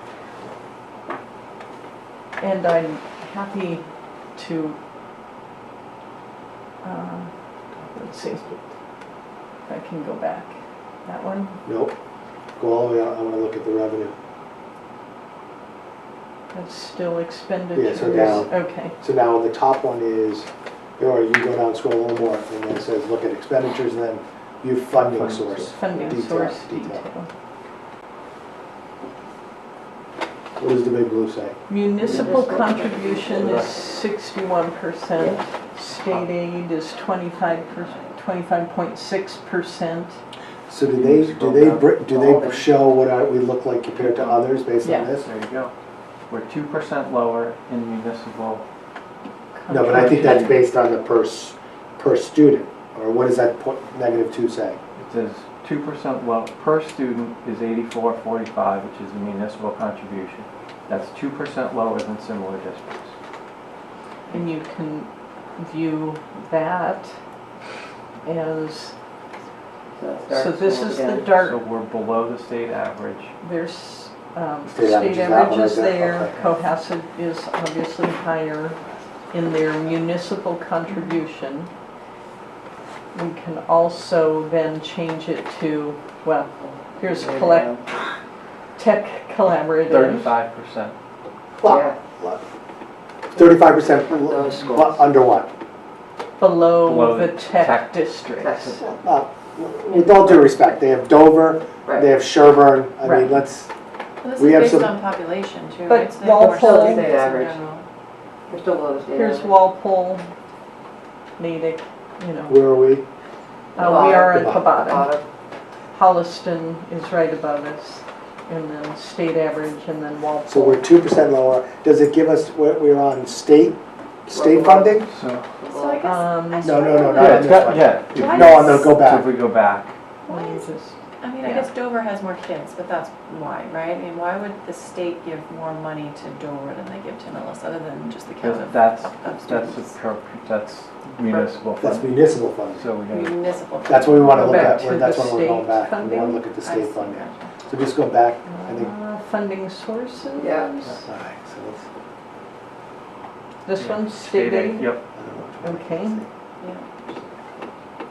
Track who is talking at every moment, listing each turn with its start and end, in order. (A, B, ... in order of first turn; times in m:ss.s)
0:02.4-0:04.8 A
0:06.8-0:07.3 A
0:07.9-0:08.6 A
0:09.7-0:11.6 A
0:11.6-0:11.9 B
0:12.6-0:14.1 B
0:16.5-0:18.9 A
0:17.7-0:27.0 B
0:24.9-0:25.8 C
0:25.7-0:27.3 A
0:30.6-0:31.6 B
0:31.7-0:40.2 A
0:32.0-0:33.7 D
0:33.3-0:33.7 C
0:35.2-0:35.4 D
0:40.7-0:45.3 B
0:40.9-0:41.9 C
0:42.0-0:42.7 D
0:43.9-0:44.5 C
0:44.8-0:45.1 A
0:45.2-0:45.7 C
0:46.3-0:48.6 C
0:49.5-0:50.6 A
0:49.7-0:54.8 B
0:49.9-0:50.5 C
0:55.0-1:03.1 C
1:04.3-1:07.1 A
1:08.2-1:08.9 A
1:10.0-1:11.4 D
1:10.3-1:11.6 A
1:11.4-1:13.3 C
1:13.4-1:18.8 A
1:14.7-1:16.5 B
1:19.3-1:21.7 A
1:23.1-1:27.7 A
1:26.6-1:27.8 D
1:28.8-1:30.3 A
1:29.9-1:30.9 C
1:31.6-1:32.4 B
1:31.6-1:32.0 D
1:33.3-1:35.5 B
1:34.2-1:35.0 D
1:36.4-1:38.8 A
1:36.8-1:38.8 C
1:38.4-1:39.0 D
1:39.0-1:43.7 B
1:39.9-1:40.6 D
1:41.8-1:42.1 D
1:43.0-1:43.4 A
1:44.2-1:47.8 E
1:44.4-1:44.9 B
1:45.9-1:47.1 A
1:46.2-1:47.6 D
1:48.5-1:49.5 D
1:49.1-1:50.2 A
1:51.4-1:52.6 A
1:52.5-1:53.0 B
1:53.7-1:55.1 A
1:53.8-1:55.2 D
1:53.8-1:54.6 B
1:55.9-2:00.8 A
2:00.5-2:05.1 B
2:04.3-2:06.1 D
2:05.1-2:05.5 C
2:05.7-2:09.0 E
2:06.0-2:06.8 A
2:06.6-2:09.3 B
2:07.2-2:09.9 C
2:10.2-2:10.6 E
2:10.3-2:11.7 A
2:11.2-2:19.9 E
2:18.4-2:22.1 C
2:21.8-2:22.8 B
2:22.7-2:23.4 C
2:23.1-2:24.6 E
2:23.9-2:28.9 B
2:24.3-2:26.4 A
2:24.4-2:24.8 C
2:26.6-2:27.5 E
2:28.5-2:31.0 A
2:30.4-2:30.8 D
2:31.0-2:31.8 B
2:33.6-2:34.9 A
2:33.8-2:35.0 C
2:35.1-2:36.3 B
2:35.6-2:36.2 A
2:36.6-2:36.9 E